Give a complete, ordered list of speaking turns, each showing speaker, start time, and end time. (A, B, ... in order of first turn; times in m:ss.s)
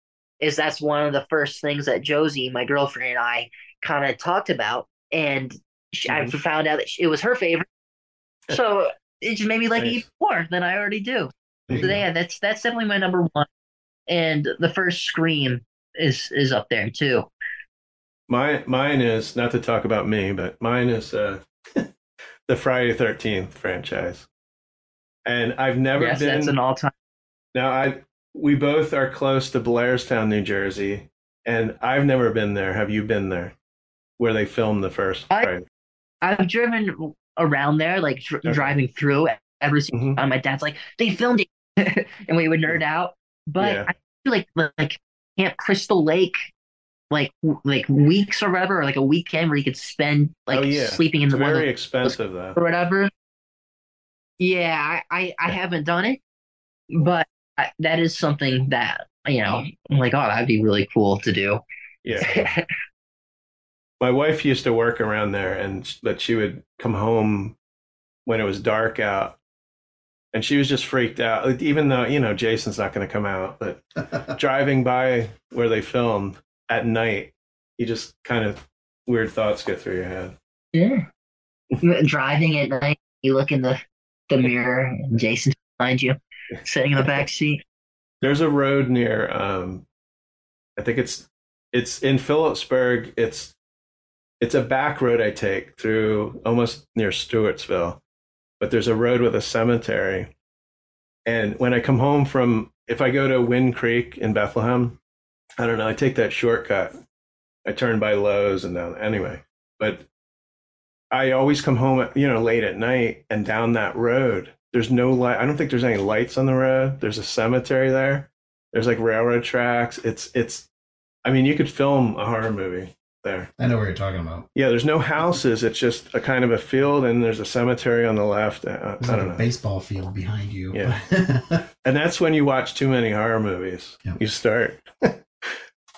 0:00.4-0:07.7 A
0:06.1-0:06.4 B
0:08.5-0:13.5 A
0:09.8-0:10.0 B
0:11.7-0:12.0 B
0:14.1-0:17.3 A
0:18.3-0:21.9 B
0:22.5-0:24.3 B
0:25.2-0:26.6 B
0:26.0-0:26.9 A
0:27.5-0:33.6 B
0:34.2-0:35.6 B
0:36.2-0:46.4 A
0:38.4-0:38.7 B
0:39.9-0:40.2 B
0:43.6-0:43.9 B
0:47.1-0:53.1 A
0:50.5-0:52.6 B
0:54.4-0:56.2 A
0:56.9-1:01.6 A
1:02.0-1:02.5 B
1:02.2-1:02.7 A
1:04.0-1:07.6 B
1:08.2-1:09.4 B
1:10.3-1:20.4 B
1:20.7-1:21.1 A
1:21.8-1:27.6 A
1:27.0-1:27.2 B
1:28.2-1:29.8 B
1:30.8-1:33.5 B
1:34.4-1:38.0 B
1:38.6-1:40.3 B
1:41.3-1:45.0 B
1:45.6-1:47.0 B
1:47.6-1:50.0 B
1:51.1-2:00.7 B
2:01.2-2:03.5 B
2:03.6-2:04.5 C
2:04.6-2:09.4 B
2:09.0-2:11.7 C
2:11.8-2:15.6 B